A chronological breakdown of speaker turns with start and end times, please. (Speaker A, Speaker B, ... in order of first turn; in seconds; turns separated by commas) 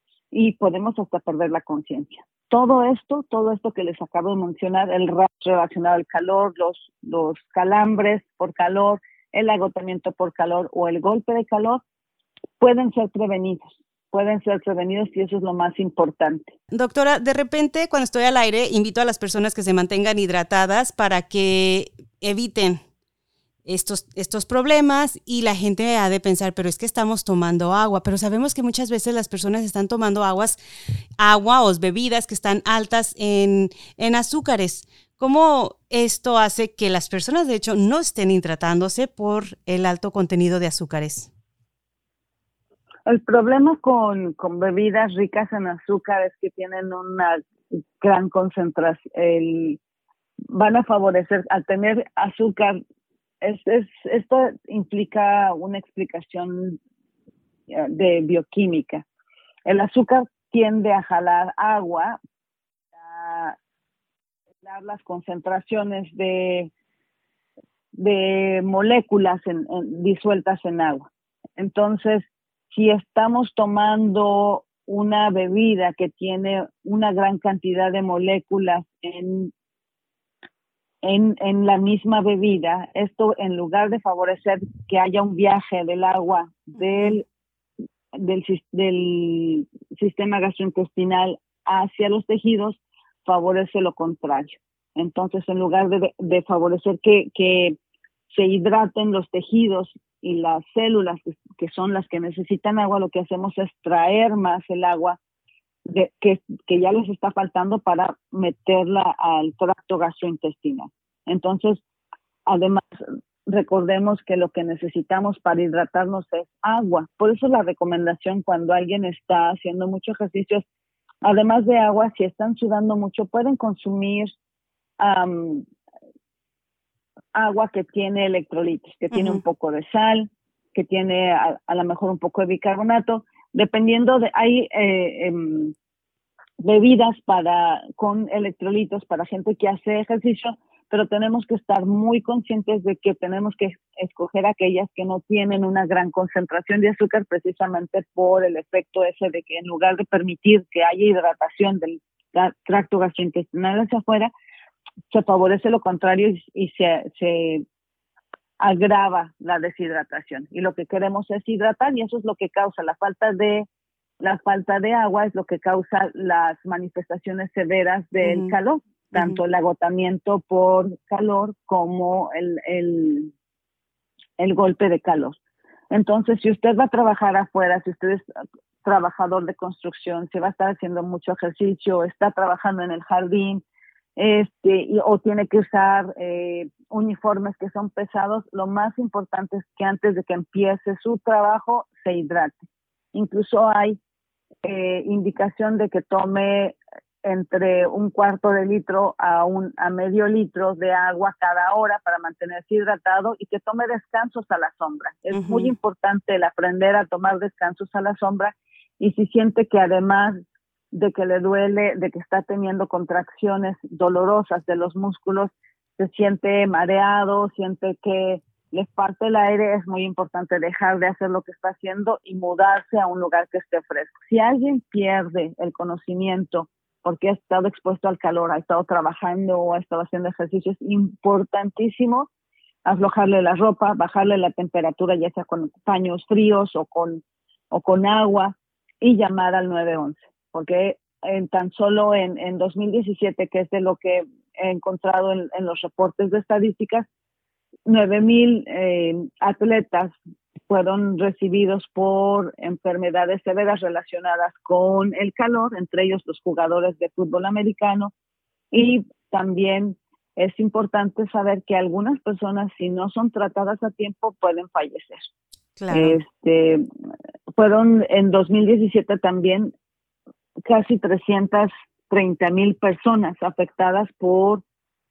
Speaker A: 0.3-11.8, Speaker A: 12.6-16.5, Speaker B: 16.7-22.8, Speaker B: 23.7-30.6, Speaker B: 31.2-41.3, Speaker A: 43.1-47.5, Speaker A: 48.0-49.8, Speaker A: 50.5-52.8, Speaker A: 53.4-56.8, Speaker A: 57.7-59.0, Speaker A: 59.6-62.2, Speaker A: 63.0-63.6, Speaker A: 64.6-66.7, Speaker A: 67.9-79.5, Speaker A: 81.0-87.3, Speaker B: 86.8-87.2, Speaker A: 88.2-97.8, Speaker A: 98.3-105.2, Speaker A: 105.9-111.8, Speaker A: 112.5-120.6, Speaker A: 121.2-124.3, Speaker A: 125.0-125.7, Speaker A: 127.3-135.8, Speaker B: 129.1-129.4, Speaker A: 136.6-154.3, Speaker A: 155.1-157.7, Speaker A: 158.6-163.7, Speaker A: 164.2-173.3, Speaker B: 168.2-168.5, Speaker A: 174.4-175.4, Speaker A: 175.9-178.3, Speaker A: 178.8-183.6, Speaker A: 184.2-192.6, Speaker A: 193.1-194.0, Speaker A: 194.7-210.4, Speaker B: 205.3-205.7, Speaker A: 210.9-232.3, Speaker A: 232.8-247.1, Speaker A: 247.9-250.2, Speaker A: 250.7-258.1, Speaker A: 258.7-265.3, Speaker B: 265.8-266.2, Speaker A: 265.9-266.8, Speaker A: 267.6-269.7, Speaker A: 270.6-274.6